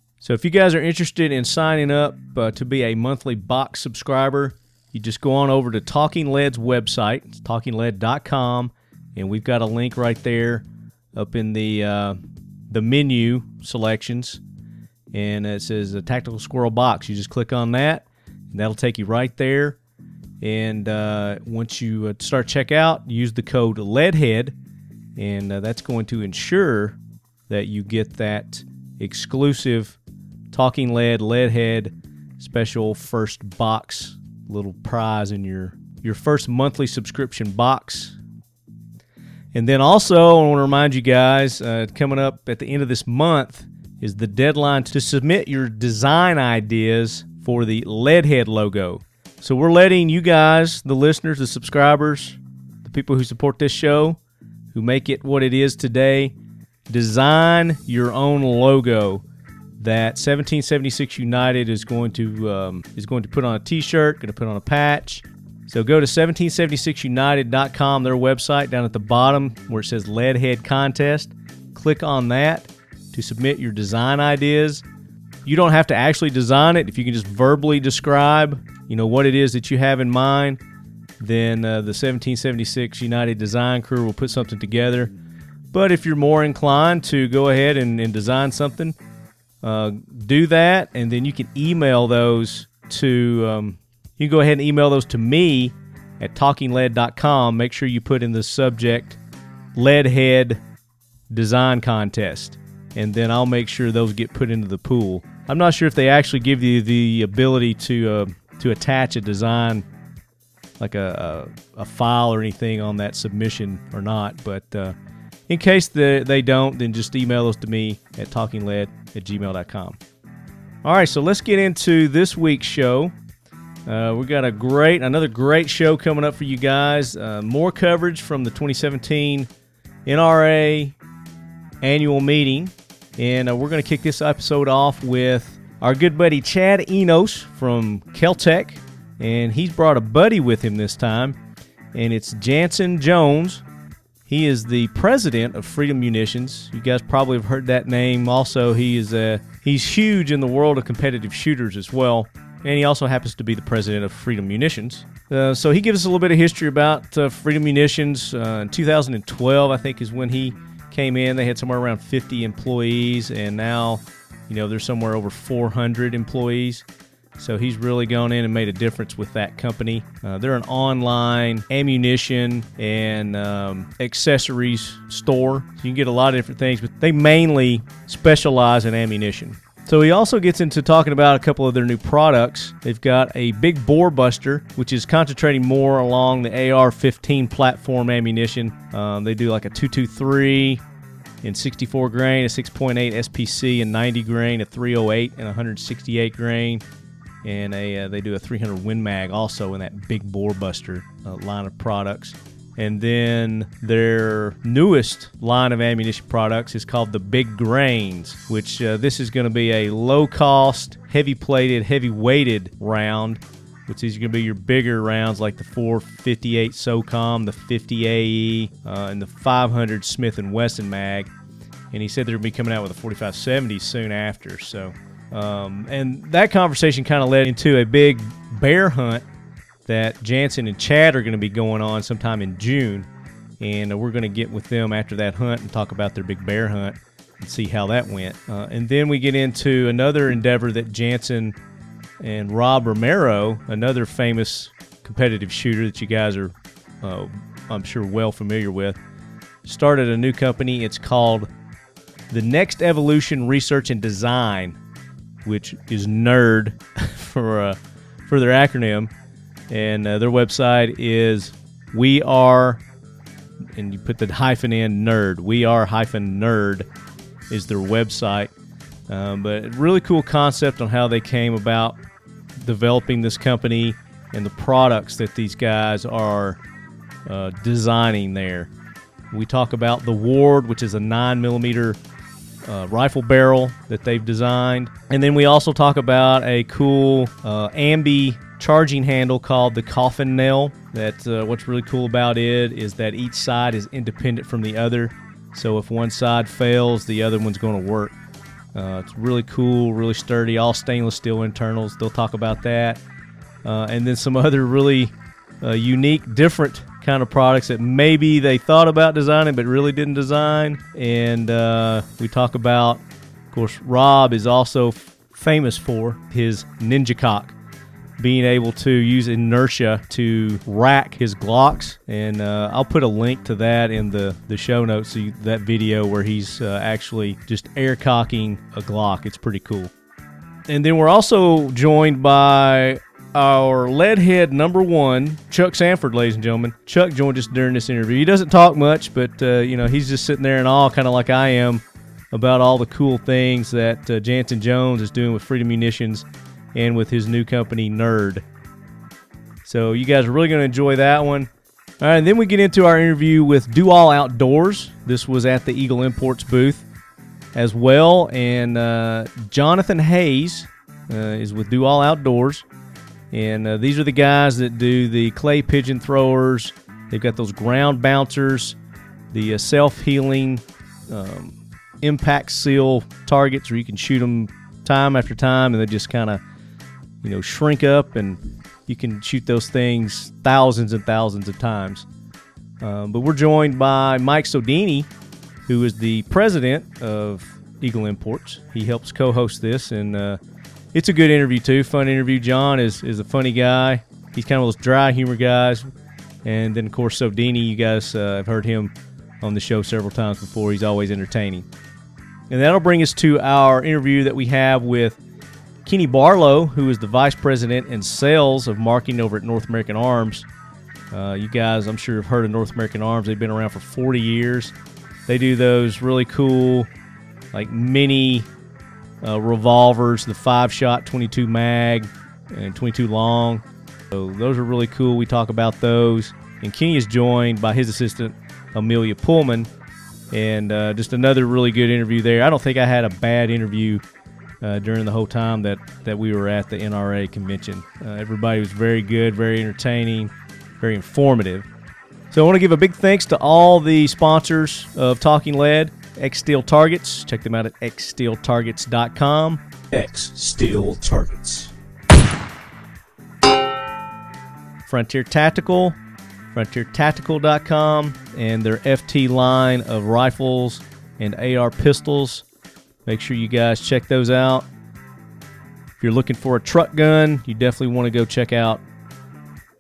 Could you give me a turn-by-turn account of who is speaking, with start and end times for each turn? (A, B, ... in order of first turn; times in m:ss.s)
0:00.2-0:12.2 A
0:12.7-0:14.4 A
0:15.1-0:19.8 A
0:20.4-0:24.6 A
0:25.2-0:27.0 A
0:27.5-0:30.0 A
0:30.5-0:38.2 A
0:39.5-0:54.2 A
0:54.7-0:56.3 A
0:56.9-0:59.2 A
0:59.8-1:14.8 A
1:15.4-1:20.6 A
1:21.2-1:25.1 A
1:25.7-1:29.0 A
1:29.6-1:39.2 A
1:39.8-1:40.6 A
1:41.3-1:49.8 A
1:50.8-1:55.0 A
1:55.5-2:00.0 A
2:00.8-2:03.1 A
2:03.9-2:09.5 A
2:10.1-2:11.0 A
2:11.8-2:21.4 A
2:21.9-2:23.6 A
2:24.3-2:46.8 A
2:47.4-3:10.8 A
3:11.4-3:16.8 A
3:17.4-3:41.3 A
3:41.9-3:49.2 A
3:49.9-3:53.1 A
3:53.6-4:01.6 A
4:02.2-4:09.0 A
4:09.6-4:11.5 A
4:12.3-4:14.8 A
4:15.4-4:19.1 A
4:19.7-4:22.8 A
4:23.7-4:26.9 A
4:27.5-4:28.5 A
4:29.1-4:32.0 A
4:32.6-4:36.6 A
4:37.3-4:38.7 A
4:39.3-4:42.0 A
4:42.6-4:58.2 A
4:58.7-5:03.0 A
5:03.6-5:17.5 A
5:18.2-5:29.9 A
5:30.7-5:48.4 A
5:49.6-5:56.8 A
5:57.5-6:02.6 A
6:03.3-6:08.8 A
6:09.3-6:16.4 A
6:17.2-6:22.1 A
6:22.8-6:25.1 A
6:25.7-6:30.4 A
6:30.9-6:35.9 A
6:36.4-6:41.7 A
6:42.5-6:45.2 A
6:45.8-6:50.5 A
6:51.1-6:54.7 A
6:55.3-6:56.9 A
6:57.5-6:58.5 A
6:59.2-7:09.7 A
7:10.3-7:14.0 A
7:14.6-7:21.7 A
7:22.3-7:31.7 A
7:34.9-7:36.0 A
7:36.5-7:42.4 A
7:43.1-7:44.7 A
7:46.0-7:48.8 A